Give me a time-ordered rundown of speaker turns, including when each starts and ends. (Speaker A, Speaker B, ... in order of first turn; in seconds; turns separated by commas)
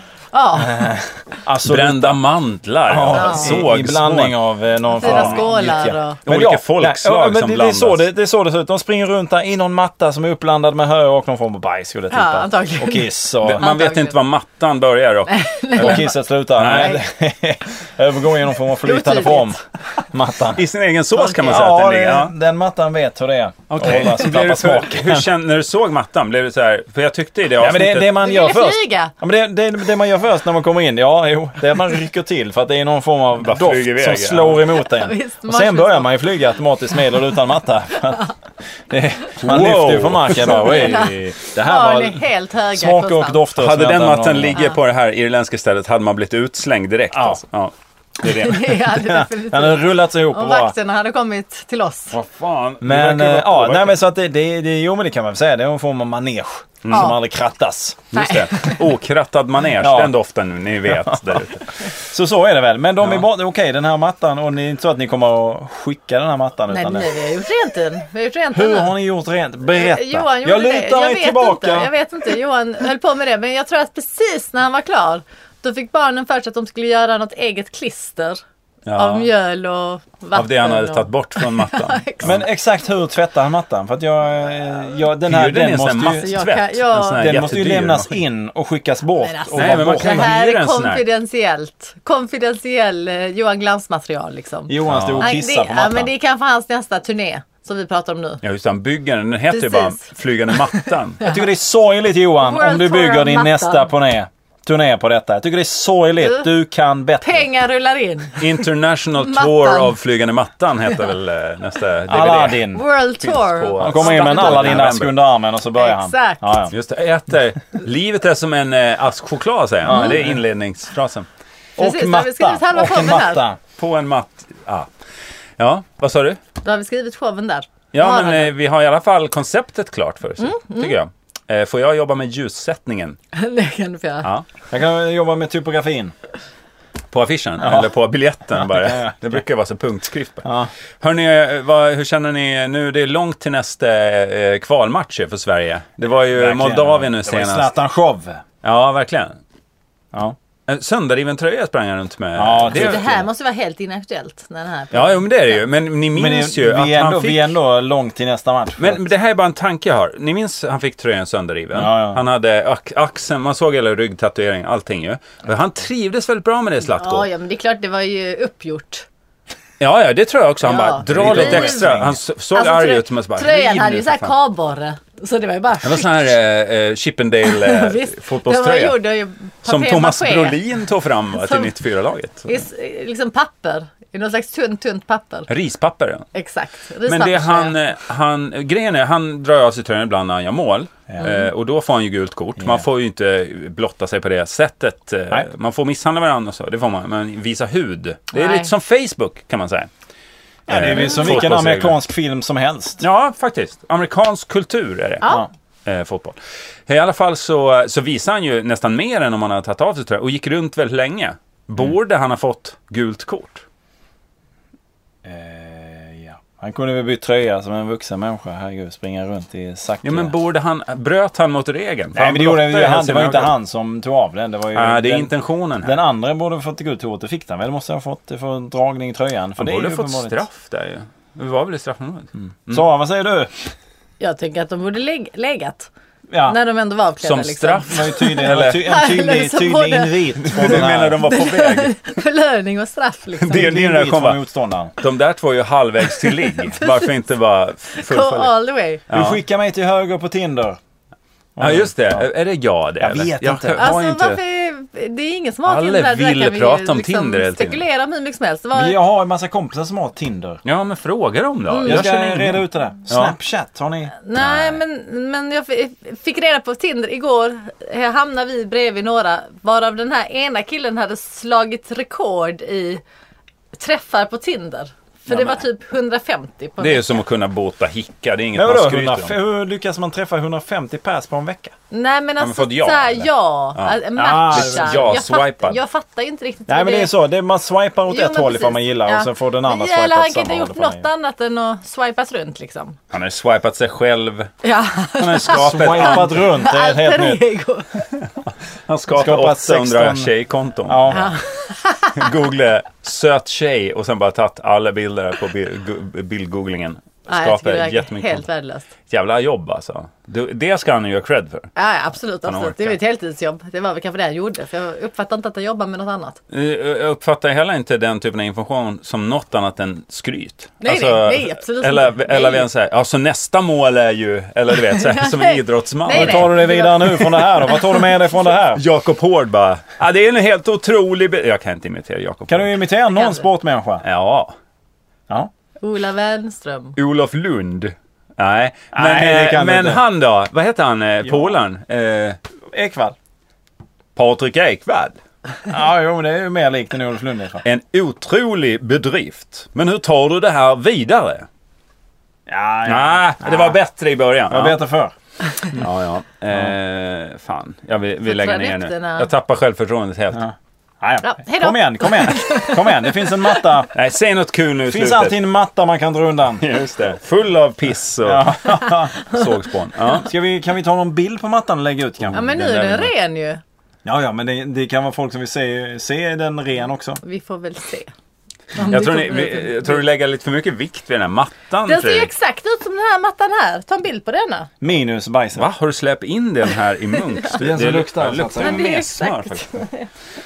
Speaker A: 0.3-0.9, Speaker B: 0.6-2.2, Speaker C: 1.6-4.4, Speaker B: 2.9-13.7, Speaker A: 3.1-3.6, Speaker A: 5.0-6.2, Speaker C: 5.0-5.5, Speaker C: 6.3-8.0, Speaker A: 12.1-14.2, Speaker C: 13.4-17.0, Speaker A: 15.3-16.2, Speaker B: 15.8-20.6, Speaker A: 16.7-17.0, Speaker A: 18.8-19.6, Speaker C: 20.5-22.3, Speaker B: 21.2-25.3, Speaker C: 23.7-28.2, Speaker B: 27.6-38.3, Speaker A: 28.2-29.1, Speaker C: 33.4-34.7, Speaker A: 34.8-36.2, Speaker B: 38.9-44.6, Speaker C: 39.4-41.0, Speaker A: 40.6-43.4, Speaker C: 43.5-48.8, Speaker B: 47.1-47.4, Speaker A: 48.2-52.2, Speaker B: 48.9-50.8, Speaker C: 52.1-54.0, Speaker B: 52.8-58.1, Speaker C: 56.9-57.1, Speaker A: 56.9-57.2, Speaker C: 58.1-61.7, Speaker A: 58.1-58.8, Speaker B: 59.8-60.1, Speaker B: 60.9-67.2, Speaker A: 66.7-68.9, Speaker B: 68.5-71.9, Speaker A: 69.7-78.4, Speaker C: 78.9-79.3, Speaker A: 79.0-82.3, Speaker C: 80.3-82.4, Speaker B: 82.2-86.3, Speaker C: 85.3-88.1, Speaker A: 86.2-87.4, Speaker B: 87.2-90.3, Speaker A: 89.2-98.4, Speaker C: 89.5-91.0, Speaker B: 94.7-96.1, Speaker C: 94.9-95.3, Speaker C: 98.4-101.2, Speaker A: 99.5-100.1, Speaker B: 101.2-107.5, Speaker A: 102.4-103.9, Speaker A: 106.2-106.5, Speaker A: 107.2-108.7, Speaker C: 108.4-112.7, Speaker A: 109.2-110.0, Speaker B: 112.1-112.8, Speaker A: 112.7-114.9, Speaker C: 113.2-115.2, Speaker B: 113.8-116.7, Speaker A: 115.8-116.5, Speaker C: 116.7-121.3, Speaker B: 119.8-120.4, Speaker B: 121.8-123.6, Speaker A: 121.8-123.4, Speaker C: 123.8-124.9, Speaker C: 125.6-126.4, Speaker A: 126.6-128.5, Speaker C: 127.9-133.2, Speaker A: 130.4-130.9, Speaker A: 133.3-134.3, Speaker B: 134.7-136.1, Speaker C: 137.1-140.5, Speaker B: 137.6-137.9, Speaker B: 138.6-139.2, Speaker B: 140.4-140.7, Speaker C: 141.0-147.7, Speaker B: 146.3-148.4, Speaker C: 148.6-149.4, Speaker C: 150.7-153.2, Speaker B: 152.4-153.1, Speaker A: 152.7-155.3, Speaker C: 154.9-157.5, Speaker B: 156.2-159.0, Speaker C: 158.8-167.3, Speaker B: 161.7-162.2, Speaker A: 167.0-169.1, Speaker C: 169.8-174.3, Speaker A: 170.6-171.9, Speaker B: 171.0-172.2, Speaker A: 172.5-176.3, Speaker C: 175.8-179.0, Speaker A: 177.5-180.6, Speaker C: 179.6-182.5, Speaker A: 181.3-181.7, Speaker A: 182.5-185.5, Speaker C: 185.5-186.3, Speaker A: 186.3-187.8, Speaker C: 187.1-199.9, Speaker A: 198.3-198.7, Speaker B: 200.7-203.0, Speaker C: 200.7-202.0, Speaker A: 200.9-201.2, Speaker C: 203.0-213.6, Speaker B: 215.2-220.3, Speaker C: 220.0-223.5, Speaker B: 222.2-225.3, Speaker C: 224.7-226.0, Speaker B: 225.8-230.4, Speaker C: 229.6-232.8, Speaker B: 232.4-233.5, Speaker A: 234.2-235.9, Speaker B: 236.3-236.6, Speaker A: 236.4-243.8, Speaker C: 237.2-238.9, Speaker B: 237.9-241.2, Speaker C: 240.4-241.9, Speaker C: 243.4-244.4, Speaker B: 243.5-244.9, Speaker C: 245.0-248.5, Speaker A: 246.2-247.1, Speaker A: 248.0-249.0, Speaker C: 249.1-249.4, Speaker B: 249.1-250.8, Speaker B: 251.6-252.2, Speaker C: 251.6-254.4, Speaker B: 253.0-253.9, Speaker A: 253.8-259.0, Speaker C: 255.7-257.8, Speaker B: 258.7-260.6, Speaker C: 260.6-263.4, Speaker A: 261.7-262.0, Speaker B: 261.8-264.1, Speaker A: 264.2-273.0, Speaker C: 264.4-264.8, Speaker A: 273.8-277.1, Speaker C: 276.8-279.4, Speaker B: 278.6-281.7, Speaker A: 281.9-287.1, Speaker C: 282.4-285.8, Speaker B: 284.2-285.2, Speaker B: 286.7-291.1, Speaker A: 288.1-293.0, Speaker C: 293.1-294.5, Speaker A: 294.6-298.1, Speaker C: 295.2-296.5, Speaker B: 295.5-297.4, Speaker C: 298.9-301.2, Speaker B: 299.1-300.3, Speaker B: 300.9-301.4, Speaker A: 301.1-302.3, Speaker C: 302.2-308.4, Speaker A: 307.3-308.9, Speaker C: 309.1-311.7, Speaker A: 311.8-316.4, Speaker C: 312.4-313.0, Speaker C: 316.5-327.3, Speaker A: 320.8-322.7, Speaker A: 324.9-327.8, Speaker B: 326.1-328.8, Speaker C: 328.7-332.7, Speaker B: 332.5-334.0, Speaker A: 333.1-333.4, Speaker C: 334.0-334.6, Speaker A: 335.8-337.0, Speaker C: 337.0-342.4, Speaker B: 338.9-340.0, Speaker B: 342.7-343.1, Speaker C: 344.2-345.2, Speaker B: 345.7-347.6, Speaker C: 347.6-351.5, Speaker B: 352.5-353.8, Speaker C: 352.9-354.8, Speaker B: 354.5-355.1, Speaker C: 355.7-360.4, Speaker A: 358.2-359.3, Speaker B: 360.4-363.9, Speaker A: 361.2-363.3, Speaker C: 363.9-365.4, Speaker B: 364.9-366.7, Speaker C: 366.6-370.3, Speaker B: 368.2-369.2, Speaker B: 370.2-372.6, Speaker C: 372.3-373.1, Speaker A: 372.3-373.6, Speaker B: 374.0-377.2, Speaker A: 377.2-378.1, Speaker A: 378.8-380.0, Speaker C: 378.8-382.3, Speaker A: 381.9-384.7, Speaker B: 384.8-385.7, Speaker C: 385.6-389.8, Speaker B: 387.6-388.8, Speaker A: 388.6-390.1